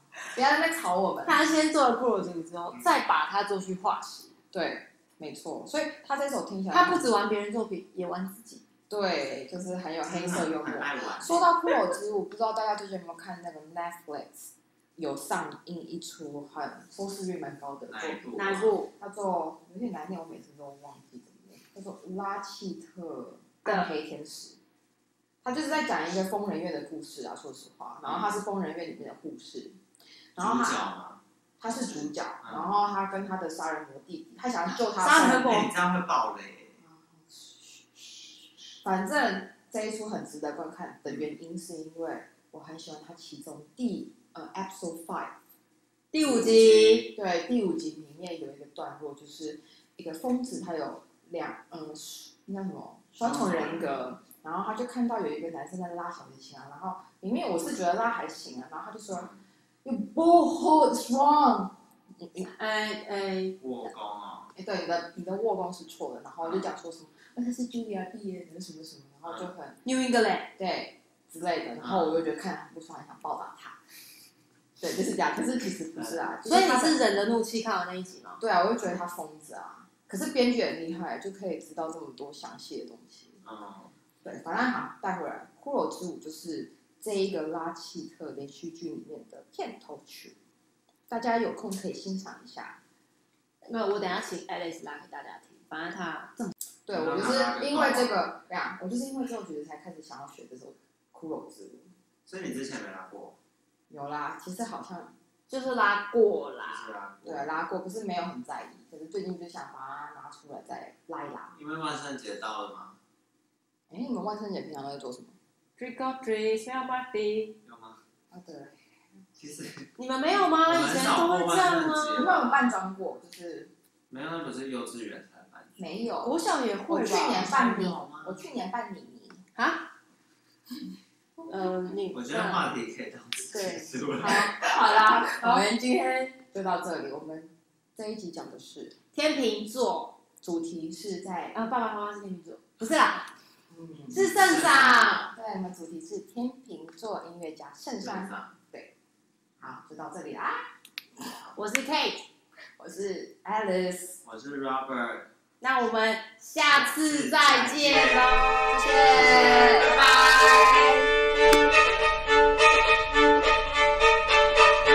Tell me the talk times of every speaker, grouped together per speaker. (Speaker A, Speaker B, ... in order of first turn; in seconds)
Speaker A: 0.3-1.4, 4.5-7.1, 8.9-24.6, 25.4-29.8, 30.4-30.9, 31.6-35.7, 36.8-45.4, 47.1-59.3, 59.9-62.5, 64.5-69.8, 70.6-73.8, 74.8-77.0, 78.4-83.4, 84.2-90.3, 91.1-92.8, 96.9-101.9, 103.9-105.1, 107.2-111.6, 113.9-115.4, 118.3-118.8, 122.1-123.7, 125.8-129.4, 131.4-131.8, 134.7-138.9, 140.4-141.6, 143.7-144.3, 145.2-148.9, 149.6-150.6, 152.8-154.2, 158.7-161.0
Speaker B: 1.2-4.3, 6.7-8.6, 18.4-18.9, 23.6-23.9, 34.7-35.7, 46.1-47.1, 62.4-63.6, 69.8-70.5, 76.5-78.4, 93.7-96.5, 105.5-106.9, 115.8-117.6, 120.0-122.4, 126.2-128.0, 129.6-129.9, 131.5-132.7, 133.5-135.7, 139.1-140.2, 141.5-143.3, 144.1-145.3, 151.5-152.3, 155.6-160.7
Speaker C: 10.1-11.5, 17.9-18.8, 28.0-28.4, 30.4-32.8, 35.5-36.8, 46.2-47.1, 53.2-54.0, 59.1-59.4, 63.6-64.5, 66.4-66.7, 71.8-72.2, 83.4-83.9, 96.9-98.2, 102.3-103.4, 106.6-107.6, 111.5-113.0, 117.7-118.0, 119.4-119.9, 120.6-122.8, 124.1-125.8, 127.5-128.5, 132.1-134.8, 144.2-145.3, 148.0-148.5, 154.2-155.3, 156.7-158.4, 158.9-160.0